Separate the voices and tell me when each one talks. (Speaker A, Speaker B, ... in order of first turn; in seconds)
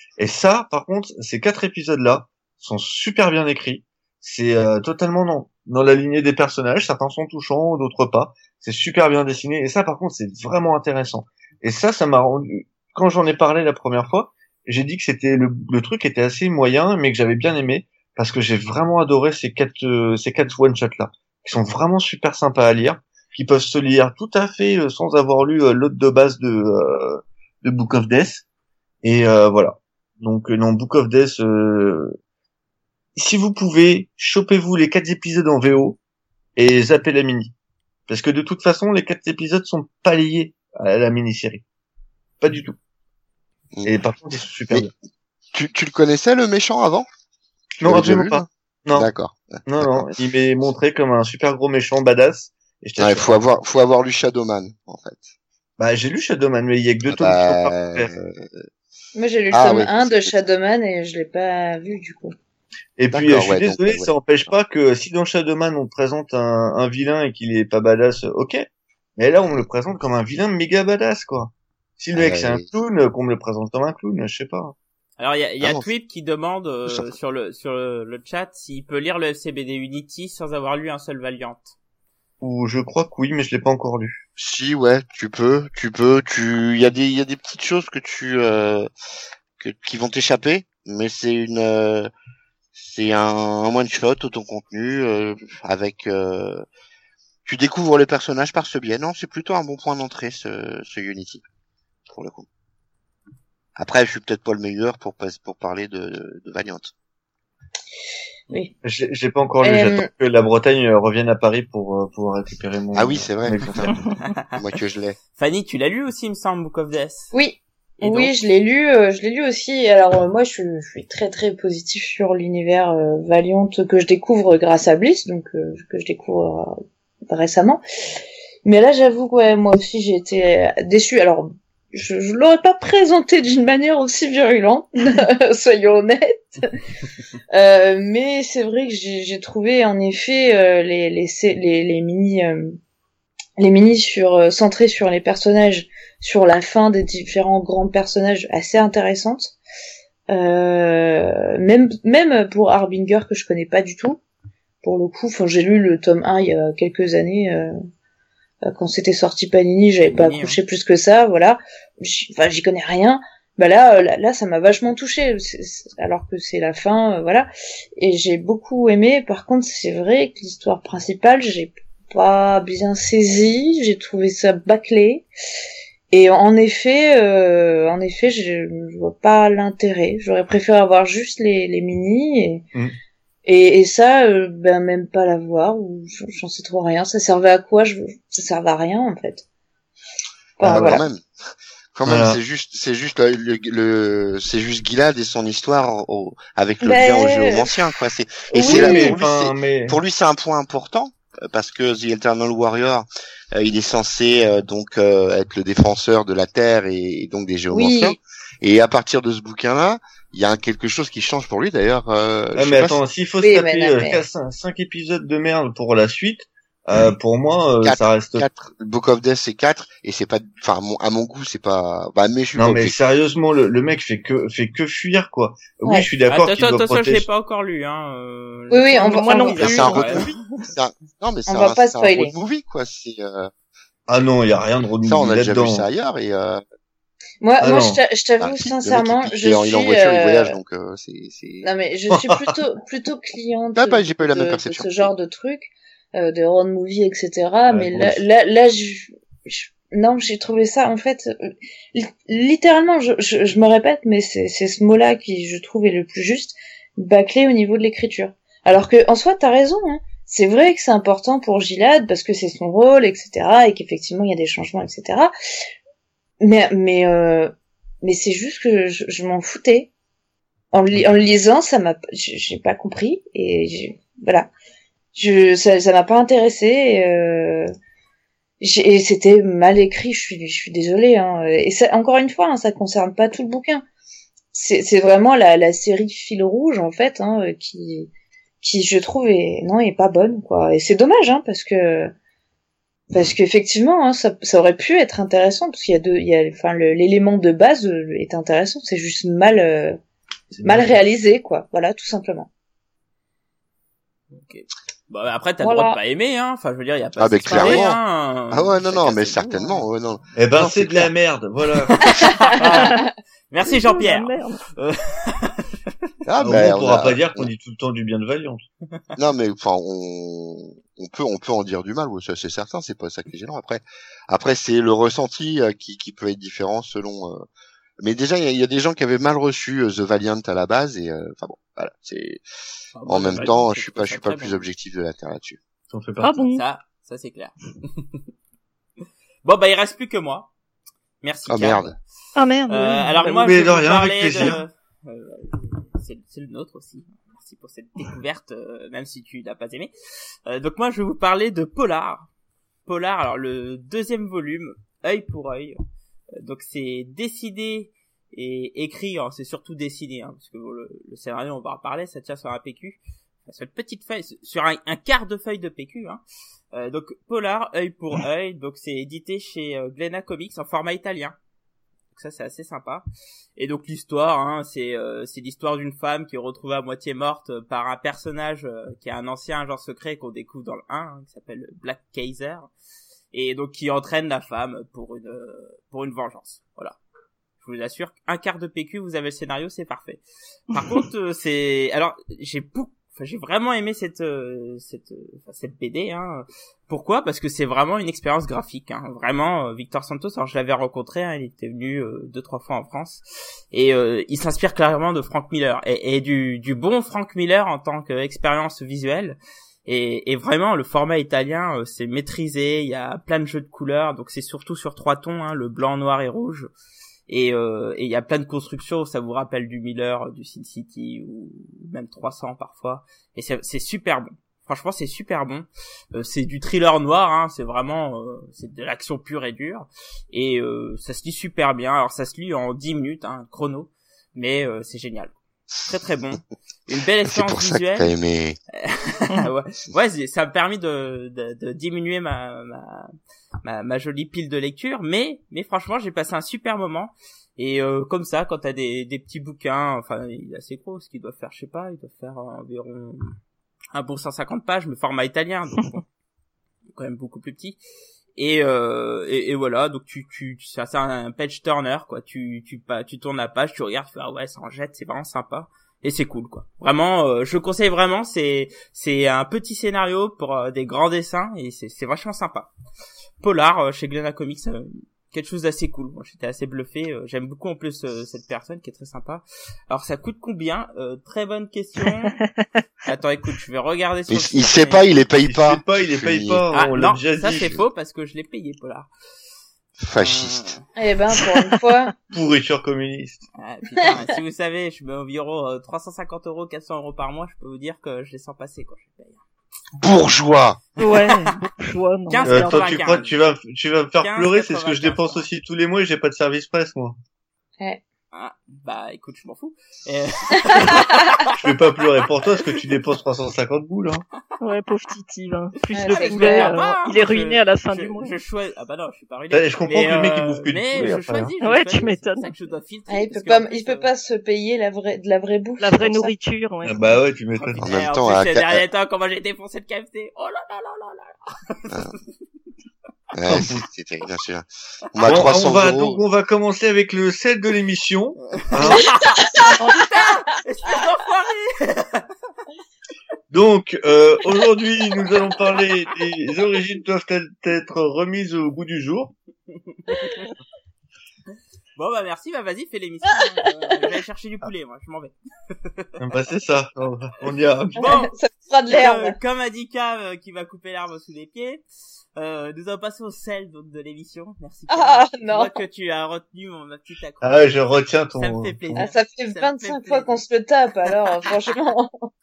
Speaker A: 0.2-28.4, 29.0-32.2, 33.2-36.0, 36.6-37.5, 38.1-41.6, 42.4-42.8, 43.9-44.9, 47.8-49.1, 49.6-53.4, 55.8-58.1, 63.0-68.7, 69.2-74.8, 82.4-84.2, 108.8-114.0, 190.6-191.0, 192.1-192.4, 198.6-200.0, 212.6-218.5, 222.6-227.3, 234.1-235.8, 237.6-238.0, 242.1-242.6, 247.7-248.2, 300.5-301.0, 310.4-312.0, 316.4-318.6, 335.9-336.4, 343.4-344.6, 485.4-487.8, 492.3-493.4, 502.4-507.2, 511.6-514.2, 519.5-521.5, 526.9-527.9, 533.5-533.8, 535.2-539.2, 543.5-549.3, 556.2-558.1, 567.4-569.1
Speaker B: 45.5-47.1, 47.8-50.1, 53.0-55.3, 57.1-58.7, 59.5-60.3, 63.1-64.5, 72.2-72.7, 84.4-88.9, 89.6-92.1, 92.8-96.7, 97.5-101.4, 102.1-102.5, 103.8-106.9, 112.9-114.0, 114.5-115.2, 190.6-191.2, 191.9-213.0, 217.8-223.0, 229.6-233.5, 235.0-236.6, 238.4-241.7, 243.8-245.1, 307.2-308.0, 308.5-311.1, 316.3-317.5, 319.2-327.4, 328.0-332.4, 333.1-335.6, 341.5-341.9, 437.3-438.6, 484.3-486.6, 490.0-490.7, 500.0-500.8, 527.8-528.8, 533.3-536.2
Speaker C: 59.1-62.3, 109.6-110.1, 117.3-126.8, 127.3-127.8, 128.7-136.9, 137.5-142.8, 143.6-149.6, 150.3-154.2, 154.8-157.7, 158.7-175.3, 176.1-182.7, 183.5-189.4, 190.6-191.0, 196.8-197.7, 198.5-199.2, 207.7-208.2, 213.4-214.2, 228.7-230.0, 231.5-232.3, 237.4-240.6, 241.6-265.3, 266.4-269.9, 270.7-274.5, 275.1-277.7, 278.6-283.8, 284.5-288.1, 288.6-292.1, 293.1-300.0, 300.6-302.5, 305.6-306.0, 312.3-313.0, 491.0-492.2, 510.7-511.1, 515.9-516.8, 523.1-526.3, 538.9-539.8, 558.0-559.4, 564.9-565.8, 569.0-572.3
Speaker D: 75.2-81.7, 115.4-117.3, 118.0-118.3, 160.1-160.6, 226.3-230.3, 304.3-309.8, 311.9-315.9, 332.9-334.6, 336.4-338.2, 339.4-340.5, 341.2-342.0, 342.7-349.9, 350.5-352.3, 352.9-355.8, 356.4-366.2, 366.7-371.4, 372.1-373.1, 373.6-382.7, 383.3-387.0, 387.6-390.2, 390.7-416.7, 417.3-438.1, 438.8-443.1, 443.6-453.4, 453.9-456.1, 456.9-457.8, 458.4-472.7, 473.4-482.4, 483.1-485.2, 486.7-489.1, 490.2-490.8, 493.6-499.4, 501.1-501.5, 502.3-503.4, 504.2-505.5, 508.3-511.8, 515.8-524.1, 527.6-532.2, 538.5-542.2, 550.1-550.5, 552.0-556.1, 557.5-558.4, 558.9-561.8, 562.4-567.8, 568.3-570.4
Speaker E: 228.9-230.2, 312.6-313.0, 313.6-314.6, 336.2-336.6, 342.4-343.6, 482.2-482.7, 491.4-491.8, 501.0-503.0, 514.6-518.4, 521.0-522.5, 525.8-527.2, 539.8-540.1